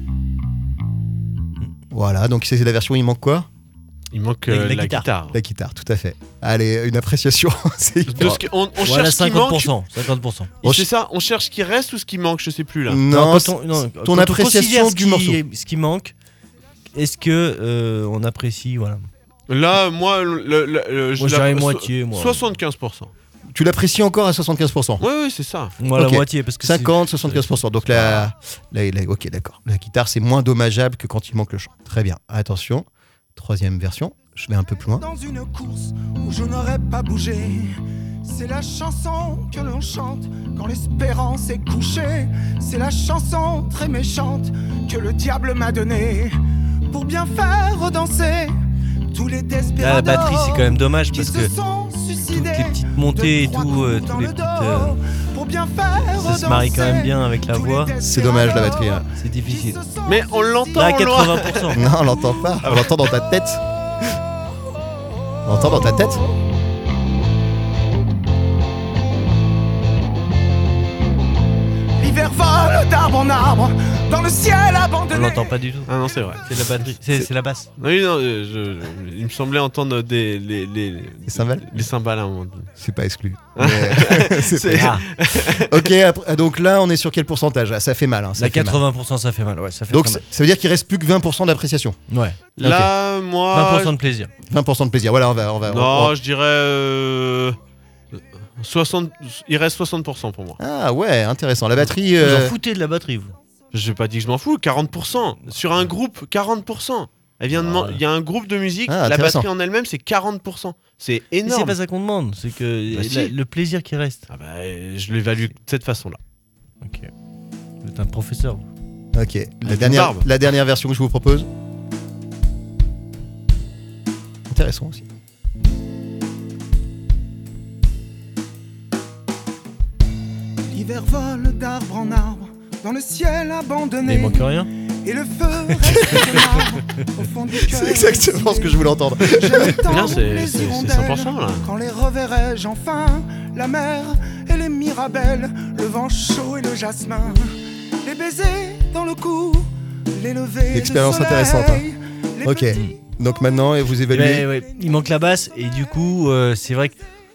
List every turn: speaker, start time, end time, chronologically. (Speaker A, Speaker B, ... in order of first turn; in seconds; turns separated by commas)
Speaker A: 1.9-3.5, Speaker B: 4.1-5.4, Speaker C: 4.5-5.1, Speaker A: 5.3-8.4, Speaker B: 8.1-9.7, Speaker C: 8.2-10.5, Speaker B: 10.6-13.0, Speaker A: 12.9-15.4, Speaker C: 13.1-16.1, Speaker C: 16.9-19.1, Speaker B: 19.5-23.1, Speaker C: 21.2-22.4, Speaker A: 23.5-25.0, Speaker B: 25.0-25.8, Speaker C: 25.8-27.5, Speaker A: 25.9-35.0, Speaker D: 35.0-46.4, Speaker D: 46.9-48.6, Speaker D: 49.1-60.6, Speaker C: 49.8-51.5, Speaker C: 52.3-55.0, Speaker C: 56.0-58.0, Speaker A: 58.0-59.1, Speaker C: 59.2-59.8, Speaker B: 60.1-61.8, Speaker C: 60.7-61.8, Speaker A: 61.8-63.6, Speaker B: 62.6-63.0, Speaker A: 65.5-66.2, Speaker D: 72.0-75.5, Speaker C: 75.1-75.9, Speaker B: 75.9-76.9, Speaker C: 76.4-77.7, Speaker B: 77.8-82.7, Speaker A: 81.3-81.8, Speaker A: 82.8-88.8, Speaker B: 83.6-85.9, Speaker C: 84.7-85.0, Speaker C: 88.4-90.2, Speaker A: 89.9-92.0, Speaker C: 92.1-92.4, Speaker B: 92.6-94.0, Speaker A: 92.6-92.9, Speaker C: 93.5-94.3, Speaker A: 94.5-96.2, Speaker B: 95.7-97.6, Speaker B: 98.6-100.6, Speaker A: 100.6-102.5, Speaker C: 102.2-103.3, Speaker B: 103.7-111.8, Speaker C: 107.6-108.0, Speaker A: 108.9-109.5, Speaker C: 111.5-114.2, Speaker B: 112.9-113.3, Speaker B: 114.3-116.2, Speaker C: 116.8-117.1, Speaker C: 117.8-118.7, Speaker A: 119.1-121.5, Speaker B: 119.7-120.3, Speaker A: 124.5-125.0, Speaker D: 130.7-147.5, Speaker C: 134.1-134.7, Speaker C: 136.0-136.4, Speaker A: 137.7-139.8, Speaker B: 139.9-141.7, Speaker D: 148.0-152.8, Speaker A: 150.7-151.8, Speaker A: 152.4-154.5, Speaker C: 152.7-153.0, Speaker C: 154.1-157.0